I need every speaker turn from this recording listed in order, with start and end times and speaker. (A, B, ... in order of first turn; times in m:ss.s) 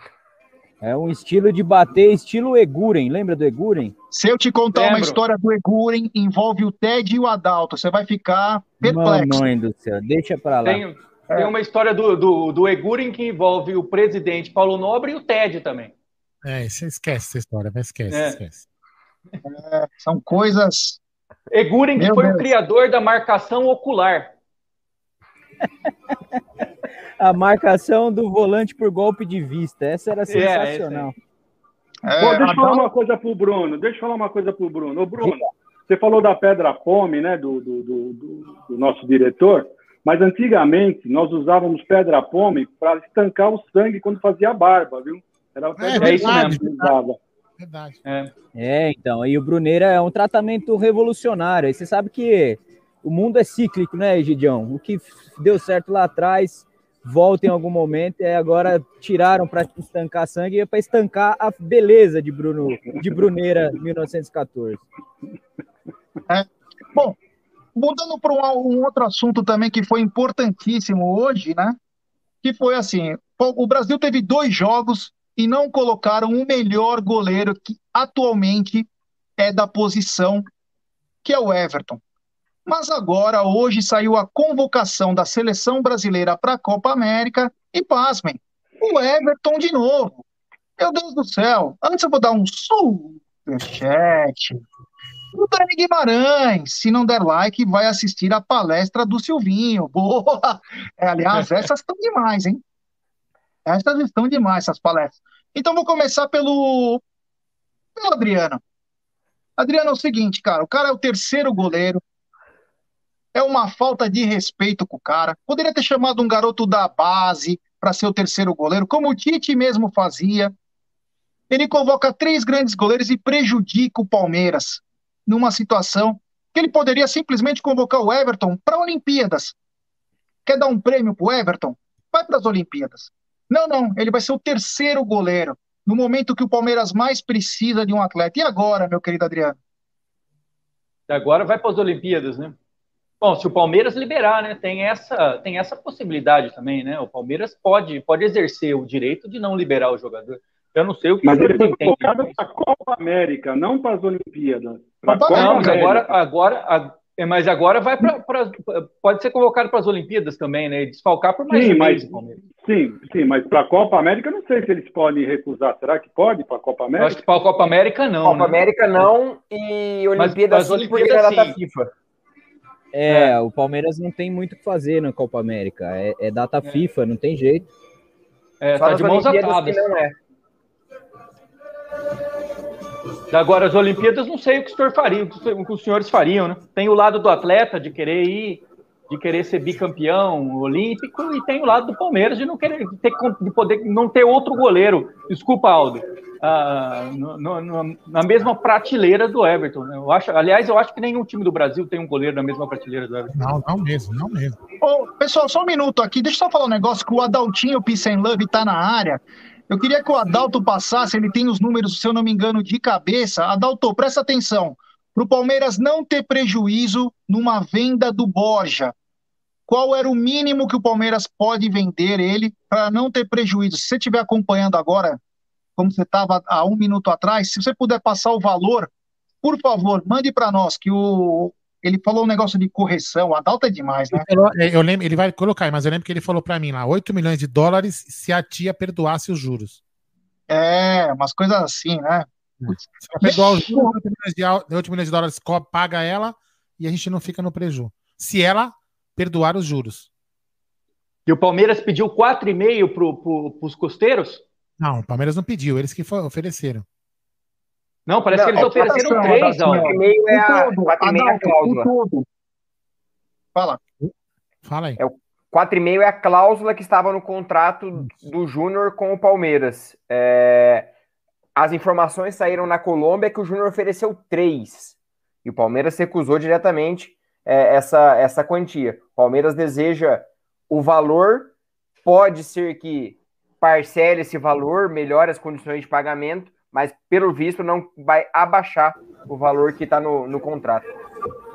0:00.8-0:04.0 A
0:04.1-0:09.5 B
0:04.7-0:05.2 C
0:08.8-0:10.8 A
0:10.6-0:15.9 C
0:16.4-0:18.6 D
0:18.1-0:18.4 C
0:19.4-0:21.0 B
0:21.5-0:24.3 C
0:22.0-0:22.5 B
0:27.2-0:31.2 A
0:30.3-0:31.1 C
0:32.1-0:32.9 B
0:32.2-0:47.2 E
0:45.8-0:46.9 D
0:46.0-0:46.6 C
0:47.6-0:48.0 D
0:48.0-0:48.3 C
0:48.6-1:04.8 A
1:06.3-1:07.2 B
1:07.8-1:11.8 B
1:12.4-1:20.5 B
1:21.2-1:22.0 B
1:22.7-1:30.2 B
1:30.8-1:34.6 B
1:35.3-1:42.6 B
1:43.7-1:47.0 B
1:48.0-1:48.6 B
1:49.6-1:52.0 B
1:53.3-2:00.5 B
2:01.5-2:09.6 B
2:10.5-2:19.6 B
2:21.1-2:22.6 C
2:23.2-2:32.3 C
2:31.2-2:36.1 E
2:35.1-2:35.9 B
2:35.3-2:42.4 C
2:41.5-2:47.2 E
2:47.0-2:48.6 C
2:48.2-2:51.9 F
2:50.2-2:51.6 C
2:52.9-2:57.7 A
2:53.1-2:53.4 C
2:58.6-2:59.9 C
2:58.8-3:00.2 F
3:03.3-3:23.4 C
3:23.3-3:24.6 D
3:24.8-3:38.9 B
3:39.7-3:45.2 B
3:45.8-3:48.9 B
3:49.4-3:54.3 B
3:54.1-3:59.8 D
4:00.5-4:04.0 B
4:02.6-4:10.1 D
4:11.3-4:14.4 C
4:14.8-4:16.8 D
4:18.1-4:20.0 C
4:18.3-4:21.9 F
4:18.6-4:22.3 B
4:23.6-4:23.8 B
4:24.6-4:25.0 D
4:25.0-4:30.9 F
4:31.6-4:41.5 F
4:42.0-4:50.8 F